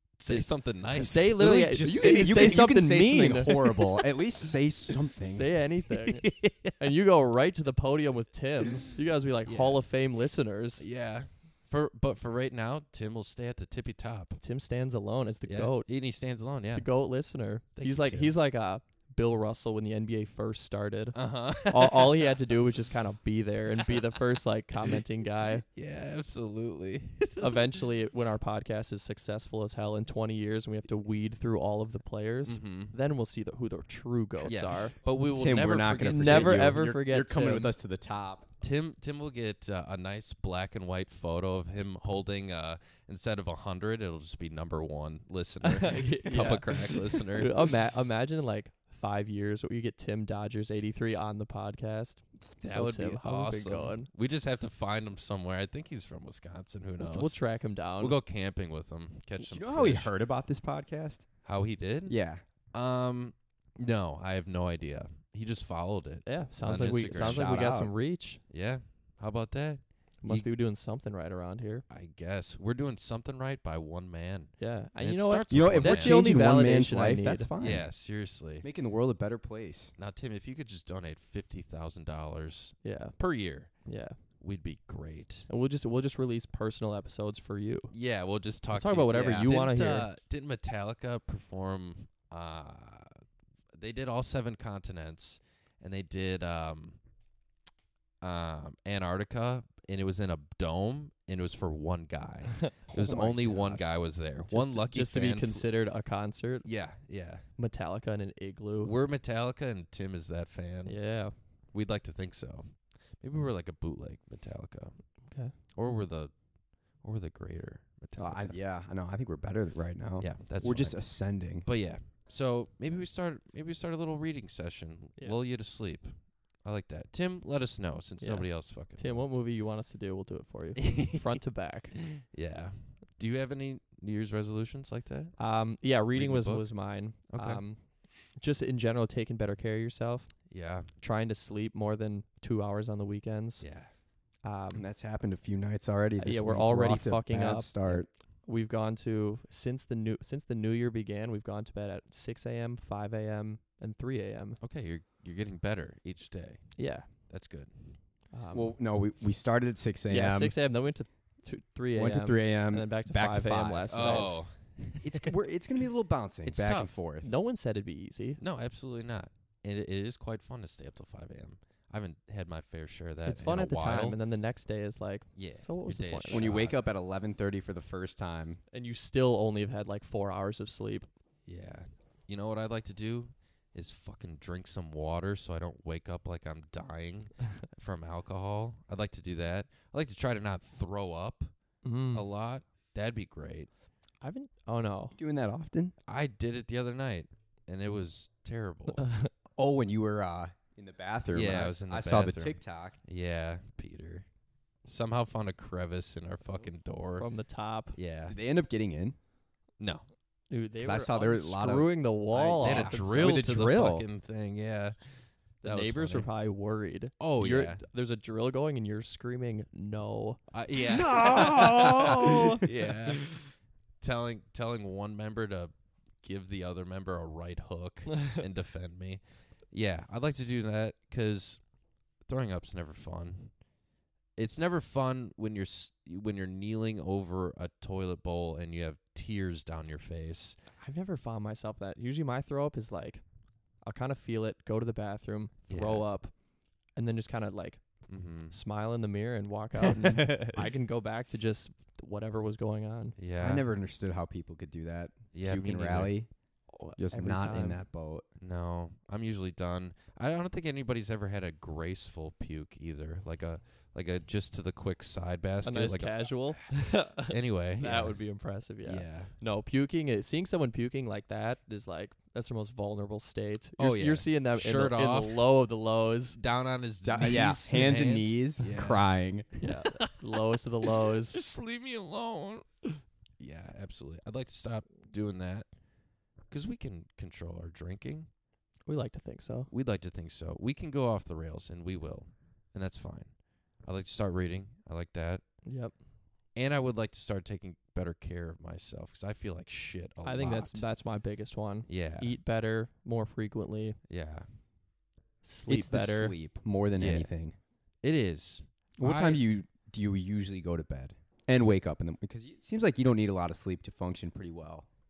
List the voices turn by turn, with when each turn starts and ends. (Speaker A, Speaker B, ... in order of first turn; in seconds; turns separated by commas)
Speaker A: 0.2-1.4, Speaker B: 0.3-4.0, Speaker C: 1.1-5.5, Speaker B: 5.3-10.8, Speaker A: 6.1-6.8, Speaker A: 9.5-9.8, Speaker A: 10.8-14.4, Speaker B: 14.4-15.9, Speaker A: 15.5-16.9, Speaker B: 16.7-25.6, Speaker A: 17.8-18.4, Speaker A: 21.1-22.4, Speaker A: 25.7-27.8, Speaker B: 27.4-35.0, Speaker A: 32.5-32.9, Speaker A: 34.4-36.8, Speaker C: 35.3-38.5, Speaker B: 36.1-37.7, Speaker A: 38.6-47.7, Speaker B: 45.6-54.1, Speaker A: 52.6-57.4, Speaker B: 57.0-58.2, Speaker A: 58.0-60.1, Speaker C: 59.4-61.3, Speaker A: 61.5-62.2, Speaker C: 62.1-62.4, Speaker A: 62.7-67.5, Speaker B: 66.2-68.4, Speaker C: 67.1-67.9, Speaker A: 68.5-70.5, Speaker B: 70.2-71.8, Speaker A: 71.9-76.2, Speaker B: 74.6-77.7, Speaker C: 75.5-77.9, Speaker A: 77.6-78.7, Speaker C: 78.6-79.9, Speaker A: 80.0-83.8, Speaker B: 82.8-83.2, Speaker B: 83.8-84.2, Speaker A: 84.4-85.5, Speaker B: 85.5-87.9, Speaker A: 87.9-93.2, Speaker B: 88.7-90.1, Speaker A: 93.7-97.0, Speaker A: 98.2-105.7, Speaker C: 102.9-103.8, Speaker B: 104.5-106.7, Speaker A: 106.6-107.5, Speaker B: 107.6-108.9, Speaker A: 108.8-111.0, Speaker B: 110.9-111.3, Speaker A: 111.7-115.0, Speaker B: 115.3-115.5, Speaker A: 115.7-116.3, Speaker A: 117.0-118.6, Speaker C: 118.2-121.7, Speaker A: 120.2-121.0, Speaker A: 121.6-129.2, Speaker B: 128.2-132.0, Speaker A: 130.8-131.3, Speaker A: 132.0-135.3, Speaker B: 135.4-140.3, Speaker A: 136.1-136.7, Speaker A: 137.3-137.6, Speaker A: 140.5-140.9, Speaker B: 141.0-143.7, Speaker A: 143.6-143.9, Speaker B: 144.4-144.8, Speaker C: 144.7-148.1, Speaker B: 146.2-154.6, Speaker A: 154.6-158.0, Speaker B: 156.8-157.1, Speaker B: 158.3-158.8, Speaker C: 158.5-160.6, Speaker B: 160.1-164.4, Speaker C: 161.9-164.4, Speaker A: 163.9-165.4, Speaker C: 165.0-167.3, Speaker A: 166.4-166.9, Speaker B: 167.2-168.4, Speaker A: 168.4-174.2, Speaker B: 173.3-176.8, Speaker A: 175.4-176.8, Speaker C: 176.3-178.6, Speaker B: 178.7-181.1, Speaker A: 181.5-191.5, Speaker B: 191.8-192.3, Speaker A: 192.1-193.7, Speaker B: 194.2-195.2, Speaker C: 195.2-195.9, Speaker A: 196.1-199.0, Speaker B: 199.0-199.3, Speaker C: 199.6-203.0, Speaker A: 201.3-204.3, Speaker A: 204.8-207.3, Speaker B: 207.2-208.0, Speaker A: 207.9-208.4, Speaker C: 208.3-209.2, Speaker A: 209.8-210.1, Speaker B: 210.5-213.3, Speaker C: 210.8-214.1, Speaker A: 212.6-216.3, Speaker B: 215.6-220.4, Speaker A: 217.2-217.8, Speaker A: 220.5-231.6, Speaker C: 220.9-222.7, Speaker B: 221.1-222.6, Speaker A: 232.2-233.6, Speaker A: 234.4-240.6, Speaker B: 240.8-243.2, Speaker B: 243.8-246.3, Speaker A: 245.7-246.1, Speaker B: 247.0-247.8, Speaker A: 248.1-248.6, Speaker B: 248.5-253.2, Speaker A: 253.2-253.6, Speaker C: 253.4-256.3, Speaker A: 255.3-256.2, Speaker B: 256.7-257.8, Speaker C: 256.9-258.2, Speaker A: 258.4-266.6, Speaker B: 265.6-276.4, Speaker A: 267.2-268.2, Speaker A: 268.8-269.3, Speaker A: 273.8-275.6, Speaker A: 276.4-279.1, Speaker C: 277.0-279.5, Speaker B: 279.6-281.4, Speaker A: 279.6-285.7, Speaker A: 286.5-288.3, Speaker B: 288.9-289.7, Speaker A: 289.7-293.3, Speaker A: 293.9-295.4, Speaker B: 295.6-295.9, Speaker A: 296.6-300.9, Speaker B: 300.2-304.0, Speaker A: 301.9-302.4, Speaker A: 304.1-304.5, Speaker B: 305.4-306.4, Speaker C: 305.7-307.6, Speaker A: 307.0-307.3, Speaker A: 308.0-309.4, Speaker C: 309.0-314.9